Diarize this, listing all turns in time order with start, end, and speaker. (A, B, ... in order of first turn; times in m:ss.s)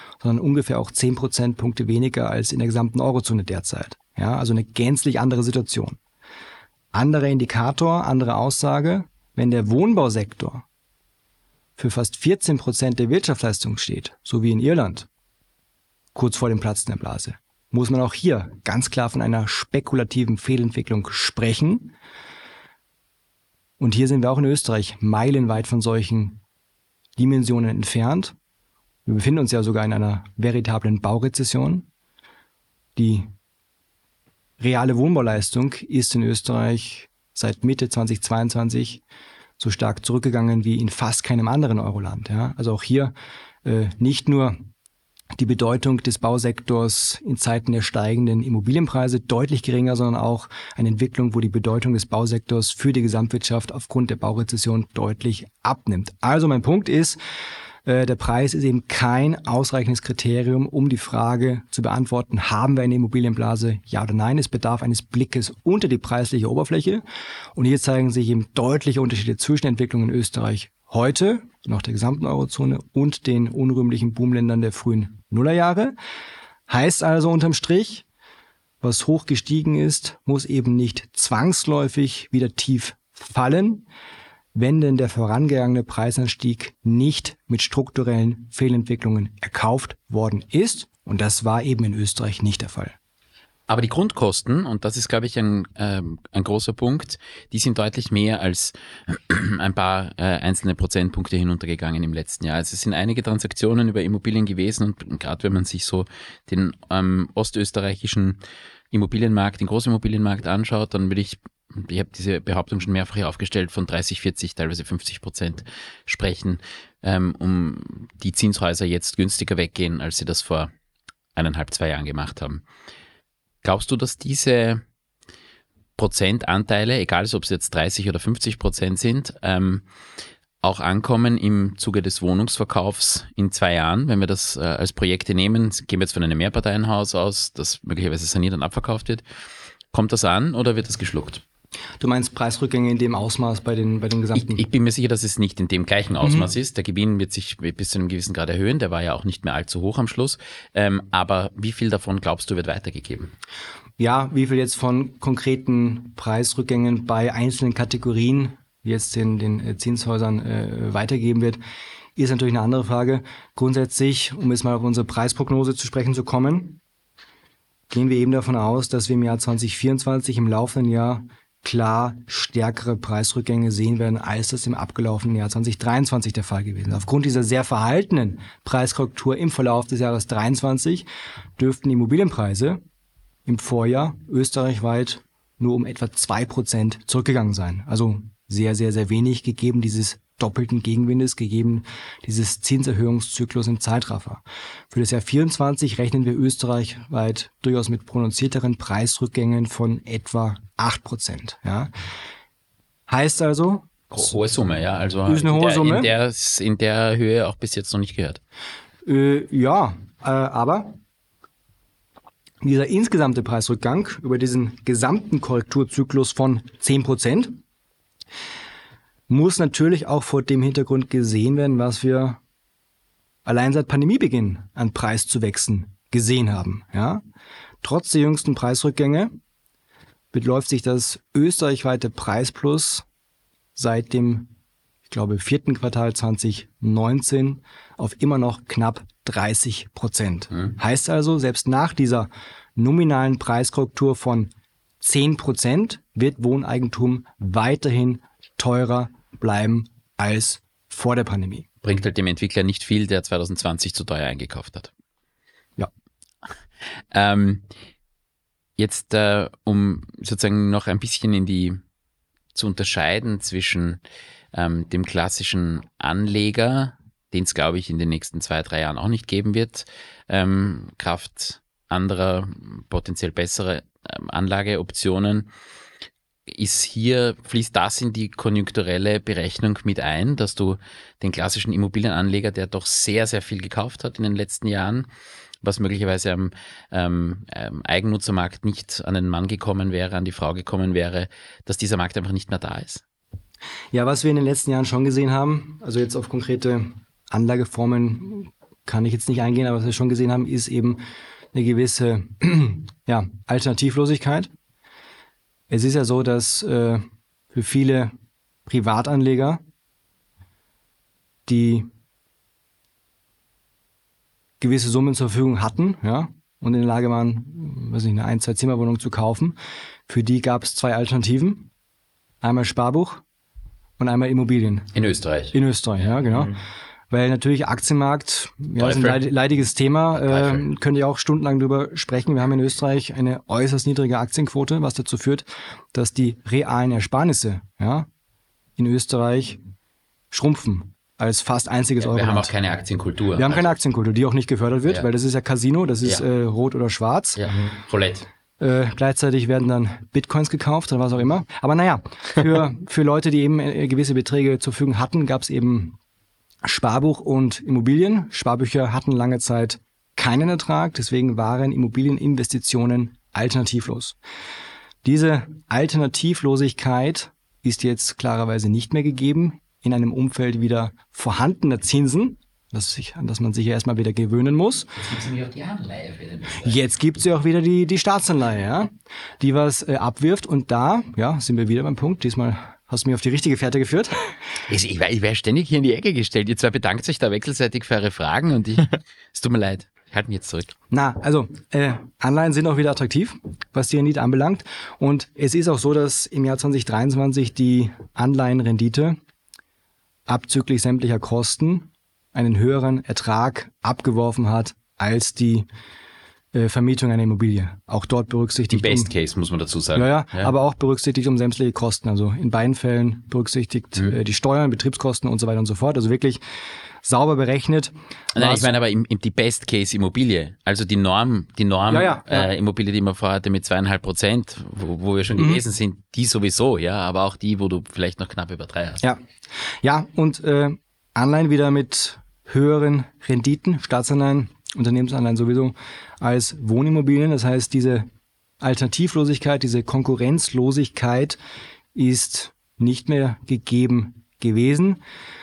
0:00.2-0:06.0 A
0:06.9-0:10.6 A
0:11.8-0:15.1 A
0:16.1-0:21.9 A
0:23.8-0:26.4 A
0:27.2-0:28.3 A
0:29.0-0:31.9 A
0:33.0-0:33.3 A
0:34.6-0:39.0 A
0:39.6-0:43.1 A
0:43.6-0:44.6 A
0:45.4-0:57.2 A
0:57.9-1:07.0 A
1:07.6-1:16.0 A
1:16.7-1:18.0 A
1:18.8-1:23.9 A
1:24.6-1:33.0 A
1:33.7-1:48.4 B
1:48.9-2:00.7 B
2:01.4-2:02.6 B
2:03.6-2:04.8 B
2:06.0-2:09.8 B
2:10.6-2:19.2 B
2:19.9-2:21.4 B
2:22.0-2:24.6 A
2:24.4-2:33.3 B
2:26.2-2:26.5 A
2:34.0-2:41.6 A
2:42.2-2:46.8 A
2:47.9-3:01.0 A
3:01.6-3:02.8 A
3:03.4-3:21.9 A
3:23.1-3:24.3 A
3:24.1-3:28.4 B
3:25.3-3:26.1 A
3:29.0-3:31.0 A
3:32.6-3:37.6 A
3:39.3-3:42.4 A
3:43.4-3:47.2 A
3:47.8-3:49.3 A
3:50.3-3:53.0 A
3:53.8-3:54.5 A
3:55.1-4:11.7 A
4:11.8-4:14.9 B
4:17.1-4:17.6 B
4:18.8-4:21.8 B
4:22.6-4:24.0 B
4:24.5-4:35.5 B
4:36.5-4:45.1 B
4:45.6-4:53.0 B
4:53.9-5:01.0 A
5:01.5-5:04.5 A
5:05.7-5:08.1 A
5:08.7-5:09.6 A
5:11.5-5:11.9 A
5:14.6-5:19.6 A
5:20.1-5:21.7 A
5:22.4-5:23.2 A
5:24.0-5:24.9 A
5:24.9-5:25.6 B
5:25.5-5:26.6 A
5:27.1-5:38.1 A
5:28.8-5:29.3 B
5:30.2-5:30.6 B
5:38.8-5:39.6 A
5:40.3-5:42.5 A
5:42.0-5:43.7 B
5:43.4-5:47.4 A
5:47.4-5:48.3 B
5:48.6-5:56.0 A
5:56.6-6:04.2 A
6:05.0-6:15.0 A
6:15.0-6:16.7 B
6:16.6-6:24.1 A
6:24.7-6:30.7 B
6:30.9-6:39.2 A
6:40.3-6:45.7 A
6:46.5-6:49.1 A
6:48.7-6:50.5 B
6:49.9-6:56.4 A
6:57.0-6:58.7 A
6:58.3-7:09.0 B
7:01.9-7:02.5 A
7:05.4-7:05.6 A
7:09.8-7:18.1 A
7:18.6-7:21.4 A
7:22.0-7:25.0 A